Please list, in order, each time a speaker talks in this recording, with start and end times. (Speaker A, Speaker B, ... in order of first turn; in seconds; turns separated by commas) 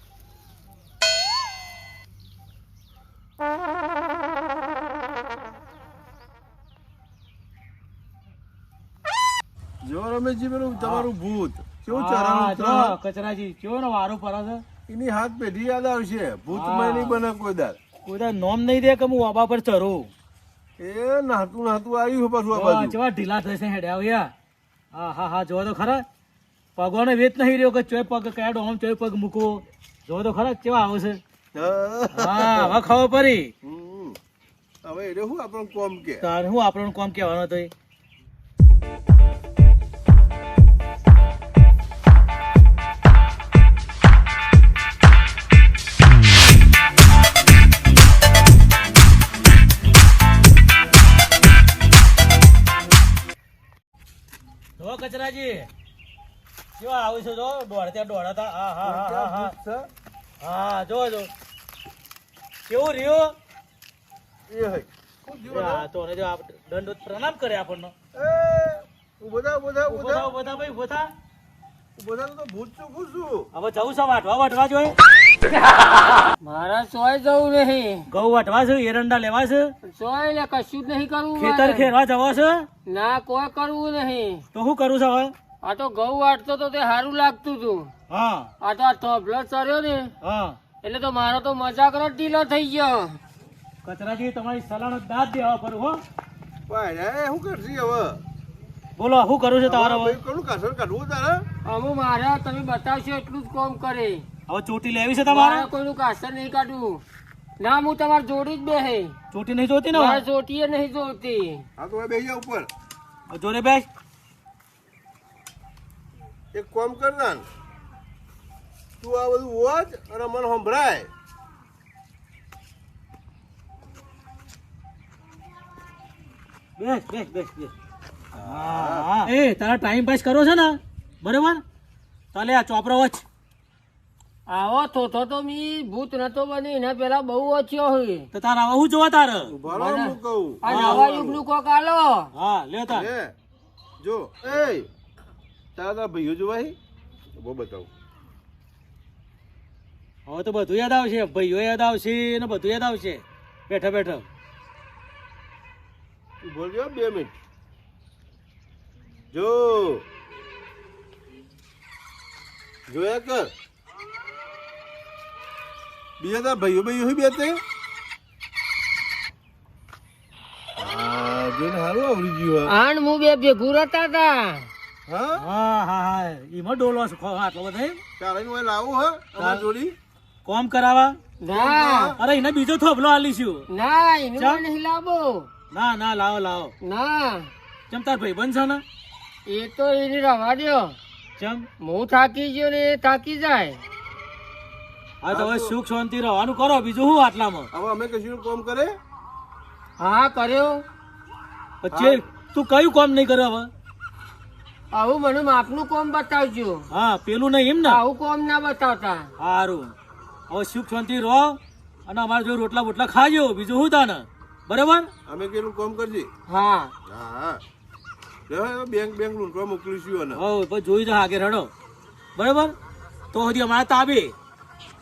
Speaker A: 9.8-12.9, Speaker B: 10.8-11.1, Speaker B: 11.9-14.6, Speaker A: 14.9-17.8, Speaker B: 16.5-17.2, Speaker B: 18.0-20.1, Speaker A: 20.8-23.0, Speaker B: 22.5-24.3, Speaker B: 24.9-26.0, Speaker B: 26.8-31.2, Speaker A: 31.6-32.8, Speaker B: 32.1-33.5, Speaker A: 33.6-34.2, Speaker A: 34.8-36.2, Speaker B: 36.2-37.7, Speaker B: 54.8-55.7, Speaker B: 56.8-59.5, Speaker A: 58.8-59.9, Speaker B: 60.4-61.3, Speaker B: 62.7-63.3, Speaker A: 64.5-65.9, Speaker B: 65.5-67.9, Speaker A: 68.2-70.3, Speaker B: 69.9-71.1, Speaker A: 72.0-73.5, Speaker B: 73.5-75.0, Speaker C: 76.4-78.1, Speaker B: 78.1-79.7, Speaker C: 79.8-81.9, Speaker B: 81.4-82.7, Speaker C: 82.9-84.4, Speaker B: 84.5-85.3, Speaker C: 85.6-87.9, Speaker B: 88.1-88.5, Speaker C: 88.6-90.1, Speaker B: 90.2-90.6, Speaker C: 90.8-93.2, Speaker B: 93.8-96.0, Speaker A: 96.7-98.2, Speaker B: 99.0-100.2, Speaker A: 99.6-101.5, Speaker C: 101.7-104.2, Speaker B: 104.5-105.7, Speaker C: 105.3-107.0, Speaker C: 107.6-109.2, Speaker B: 109.3-110.2, Speaker C: 109.9-111.7, Speaker A: 111.8-112.7, Speaker B: 113.3-113.8, Speaker A: 116.5-117.4, Speaker A: 119.0-121.1, Speaker B: 126.8-127.7, Speaker A: 128.3-129.1, Speaker B: 128.4-131.6, Speaker B: 132.3-133.2, Speaker C: 134.5-138.3, Speaker B: 138.3-139.6, Speaker A: 139.5-141.4, Speaker C: 139.7-142.3, Speaker B: 140.7-141.1, Speaker B: 142.3-143.1, Speaker A: 142.9-143.3, Speaker A: 144.0-144.9, Speaker A: 145.8-146.8, Speaker A: 147.4-147.9, Speaker B: 150.3-154.2, Speaker A: 156.4-157.3, Speaker A: 159.3-160.1, Speaker A: 162.9-163.5, Speaker A: 166.2-167.6, Speaker A: 170.8-172.7, Speaker C: 172.7-174.7, Speaker A: 175.1-175.4, Speaker B: 175.4-178.0, Speaker A: 178.2-179.9, Speaker B: 179.4-179.7, Speaker B: 180.4-181.2, Speaker C: 181.4-182.2, Speaker A: 181.5-182.2, Speaker B: 182.2-183.7, Speaker C: 183.7-185.5, Speaker B: 185.7-186.7, Speaker C: 186.8-187.5, Speaker B: 187.9-188.8, Speaker C: 189.5-191.0, Speaker B: 191.4-191.7, Speaker C: 191.8-193.8, Speaker B: 195.2-197.7, Speaker A: 195.3-195.8, Speaker A: 197.7-198.9, Speaker C: 200.0-200.8, Speaker B: 201.8-203.7, Speaker A: 201.9-202.2, Speaker C: 204.9-206.8, Speaker B: 206.9-208.0, Speaker C: 207.8-209.3, Speaker B: 209.4-209.9, Speaker B: 210.5-215.1, Speaker A: 215.3-216.3, Speaker C: 216.5-216.9, Speaker A: 217.1-217.6, Speaker A: 218.5-220.4, Speaker B: 220.4-221.7, Speaker B: 222.4-222.7, Speaker B: 223.3-224.3